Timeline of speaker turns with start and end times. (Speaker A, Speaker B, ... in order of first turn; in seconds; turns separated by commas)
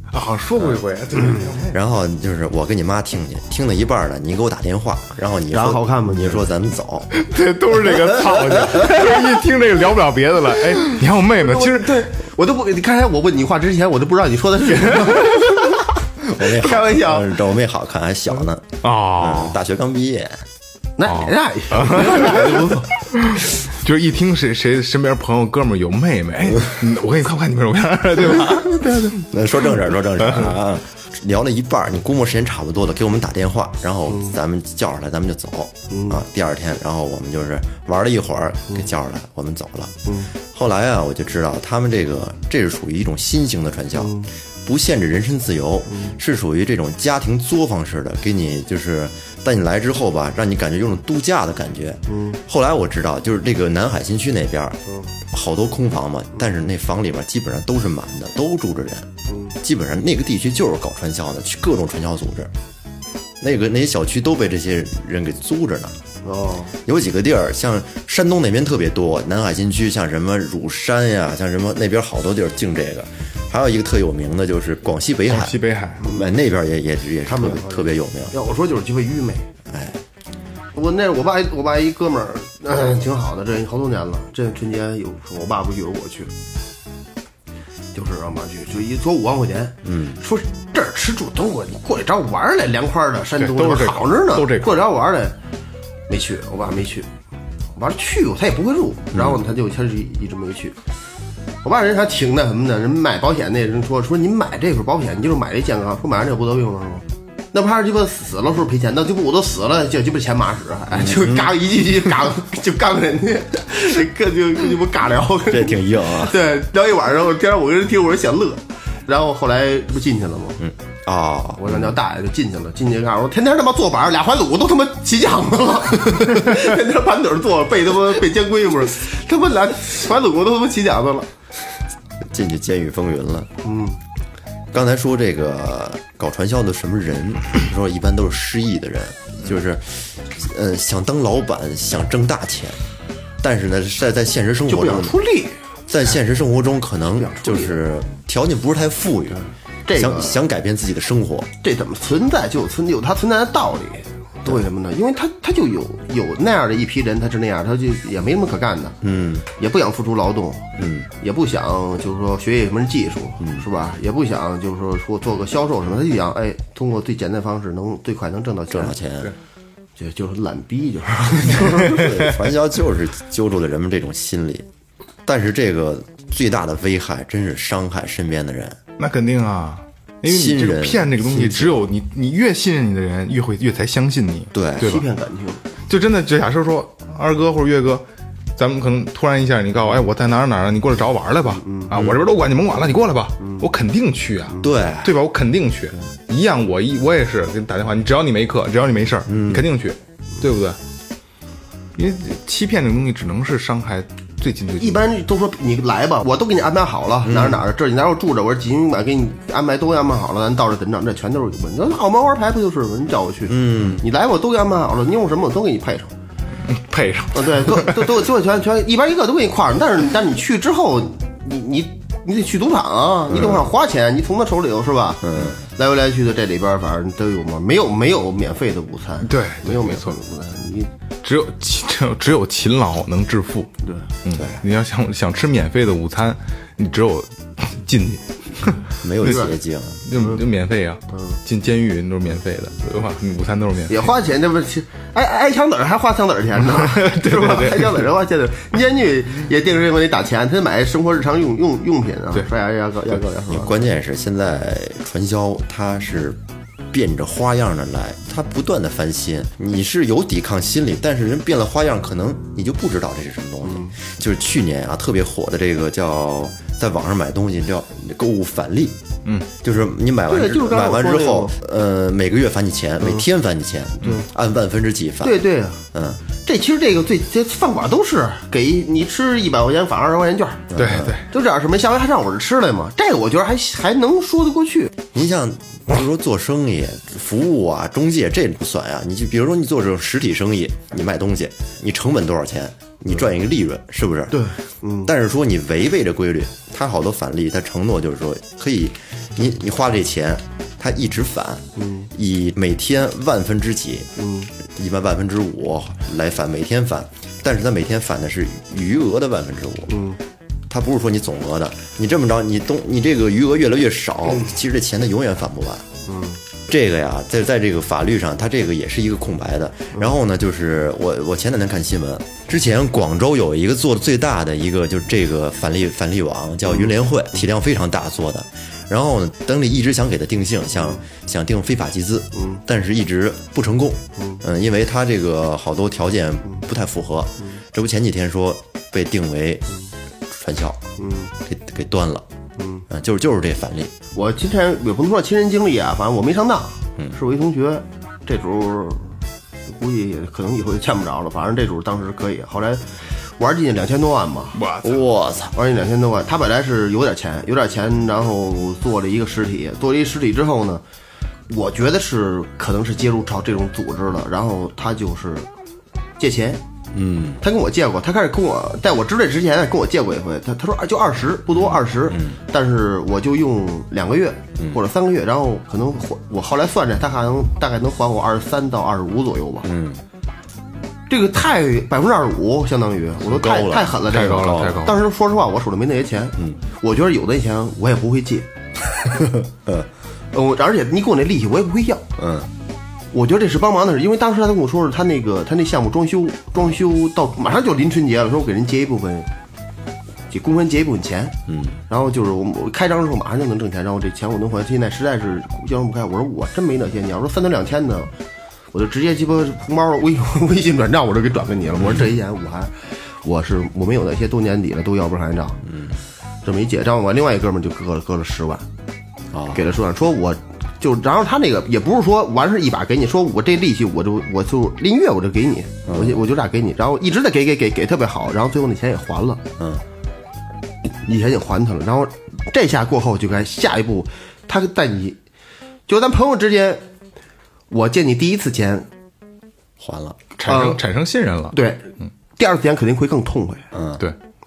Speaker A: 0.1-1.8, Speaker B: 1.6-7.1, Speaker C: 5.5-6.5, Speaker A: 7.1-12.0, Speaker B: 8.6-8.9, Speaker C: 11.4-17.3, Speaker B: 16.2-20.4, Speaker A: 18.8-19.6, Speaker C: 21.0-23.1, Speaker A: 21.1-29.1, Speaker C: 28.8-29.1, Speaker B: 29.2-59.1, Speaker A: 30.3-30.5, Speaker C: 34.1-34.4, Speaker C: 35.9-36.2, Speaker C: 40.1-40.3, Speaker C: 44.0-44.3, Speaker C: 45.9-46.1, Speaker C: 52.1-52.4, Speaker C: 59.3-59.6, Speaker B: 59.6-62.5, Speaker B: 63.4-66.0, Speaker C: 66.2-66.8, Speaker B: 66.8-78.3, Speaker A: 75.3-76.0, Speaker C: 76.0-76.4, Speaker C: 77.3-79.5, Speaker B: 79.7-80.0, Speaker C: 80.7-86.3, Speaker C: 87.9-95.4, Speaker B: 89.8-90.2, Speaker A: 93.4-94.9, Speaker C: 96.1-97.1, Speaker C: 97.8-100.8, Speaker B: 99.1-99.4, Speaker C: 101.6-120.6, Speaker B: 110.9-111.5, Speaker B: 115.5-116.4, Speaker B: 120.6-122.0, Speaker C: 121.6-131.3, Speaker B: 132.2-133.5, Speaker C: 133.6-134.0, Speaker B: 134.7-142.8, Speaker B: 143.4-145.2, Speaker C: 144.7-145.6, Speaker B: 145.9-151.5, Speaker C: 147.2-147.8, Speaker C: 149.4-150.4, Speaker C: 151.6-168.9, Speaker B: 159.0-159.5, Speaker B: 160.8-161.1, Speaker B: 163.4-163.7, Speaker B: 168.7-169.3, Speaker C: 170.0-172.1, Speaker B: 171.9-174.7, Speaker B: 175.2-178.8, Speaker A: 179.0-185.1, Speaker B: 180.3-181.8, Speaker B: 184.5-184.9, Speaker C: 184.8-185.6, Speaker A: 185.9-188.0, Speaker A: 188.6-200.8, Speaker C: 191.6-191.9, Speaker B: 194.6-195.1, Speaker B: 199.3-199.7, Speaker A: 201.9-205.1, Speaker C: 204.8-216.1, Speaker B: 207.2-207.6, Speaker B: 213.5-214.0, Speaker A: 216.6-218.2, Speaker C: 217.3-230.9, Speaker B: 223.3-223.7, Speaker B: 225.2-225.6, Speaker A: 229.2-230.2, Speaker A: 231.2-239.4, Speaker B: 234.3-234.6, Speaker B: 239.0-240.0, Speaker A: 240.1-244.1, Speaker C: 243.9-253.8, Speaker A: 246.6-248.1, Speaker B: 253.1-256.4, Speaker B: 256.9-269.0, Speaker C: 263.6-263.9, Speaker B: 269.6-275.4, Speaker C: 270.3-271.6, Speaker C: 275.2-275.8, Speaker B: 275.9-276.2, Speaker C: 276.4-280.8, Speaker B: 280.7-281.2, Speaker A: 280.7-281.3, Speaker C: 281.3-284.9, Speaker B: 285.1-294.5, Speaker C: 294.3-295.1, Speaker B: 295.1-309.9, Speaker C: 301.8-302.1, Speaker C: 304.2-304.5, Speaker C: 309.9-310.2, Speaker B: 310.7-315.9, Speaker C: 316.1-316.4, Speaker B: 316.7-339.7, Speaker C: 326.7-326.9, Speaker C: 330.8-331.0, Speaker C: 332.4-332.6, Speaker C: 334.2-334.4, Speaker B: 340.3-340.8, Speaker C: 341.0-341.3, Speaker B: 341.5-342.3, Speaker C: 342.6-342.9, Speaker B: 342.9-343.9, Speaker C: 344.1-349.2, Speaker C: 349.7-354.6, Speaker A: 354.5-355.1, Speaker B: 354.8-355.6, Speaker C: 355.6-360.8, Speaker C: 361.5-365.5, Speaker C: 366.2-366.6, Speaker B: 366.9-367.4, Speaker C: 367.4-379.7, Speaker B: 371.5-372.4, Speaker B: 379.6-380.0, Speaker C: 381.1-388.5, Speaker B: 383.2-384.9, Speaker A: 384.1-385.0, Speaker C: 390.3-392.1, Speaker B: 392.2-392.5, Speaker C: 393.1-399.3, Speaker C: 400.3-401.4, Speaker B: 401.5-401.8, Speaker C: 401.9-408.1, Speaker C: 408.7-415.6, Speaker B: 411.8-412.1, Speaker B: 415.7-416.0, Speaker C: 416.4-418.7, Speaker B: 419.3-419.6, Speaker C: 419.5-429.4, Speaker B: 425.9-426.2, Speaker B: 429.6-429.8, Speaker C: 431.1-435.2, Speaker C: 435.9-436.8, Speaker C: 437.7-438.9, Speaker B: 439.8-440.2, Speaker A: 440.4-441.6, Speaker C: 440.5-440.8, Speaker C: 441.5-443.7, Speaker B: 443.7-444.0